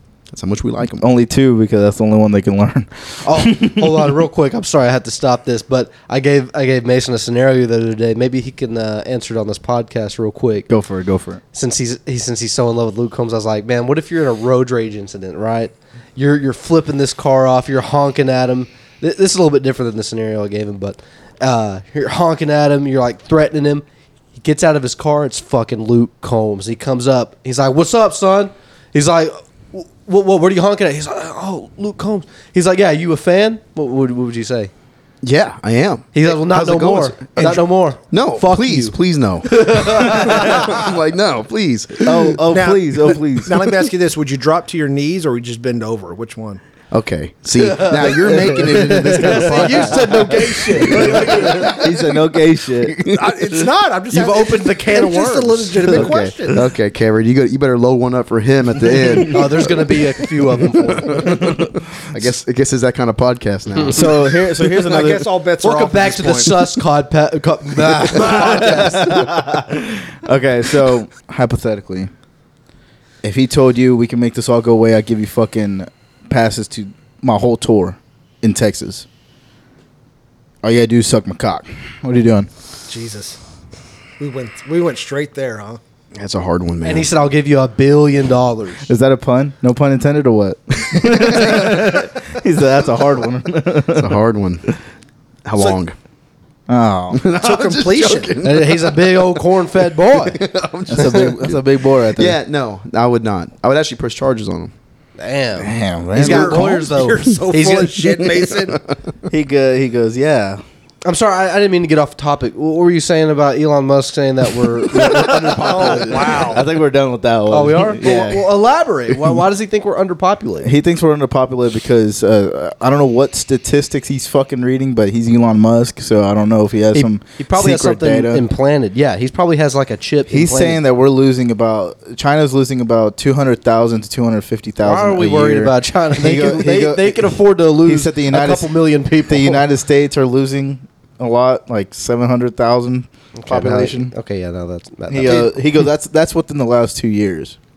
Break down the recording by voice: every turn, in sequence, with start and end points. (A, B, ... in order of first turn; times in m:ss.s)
0:00.3-0:01.1 A
0:01.0-0:04.2 B
0:03.2-0:10.7 C
0:10.7-0:11.4 B
0:11.5-0:23.8 C
0:24.4-0:34.7 C
0:35.2-0:42.4 A
0:36.1-0:40.9 C
0:42.0-0:43.7 B
0:42.5-0:46.6 D
0:46.9-0:52.2 A
0:47.6-0:51.8 C
0:48.2-0:53.0 B
0:52.8-0:53.7 A
0:53.1-0:56.6 D
0:54.1-0:56.1 C
0:55.9-0:59.7 A
0:59.2-1:01.4 C
1:00.8-1:04.8 A
1:01.2-1:02.3 B
1:03.9-1:05.3 B
1:04.8-1:06.6 D
1:05.6-1:09.2 C
1:08.2-1:09.0 D
1:08.2-1:12.1 B
1:13.2-1:19.1 B
1:20.6-1:22.5 B
1:22.9-1:23.4 D
1:24.2-1:25.8 D
1:26.2-1:27.1 A
1:26.8-1:28.9 C
1:28.9-1:34.2 B
1:31.0-1:31.7 A
1:33.9-1:34.8 A
1:35.4-1:35.9 A
1:36.7-1:37.2 B
1:37.1-1:39.2 A
1:37.4-1:38.4 D
1:38.4-1:40.4 C
1:40.1-1:41.6 A
1:40.9-1:42.4 B
1:42.1-1:44.7 A
1:45.2-1:48.1 C
1:45.6-1:46.9 B
1:46.2-1:48.8 D
1:49.3-1:50.6 B
1:51.0-1:56.6 C
1:54.9-1:58.4 B
1:55.7-1:56.6 D
1:57.5-2:00.7 C
2:00.6-2:08.4 B
2:06.9-2:10.8 C
2:10.3-2:24.1 B
2:14.8-2:19.6 C
2:23.3-2:25.6 C
2:25.1-2:27.6 B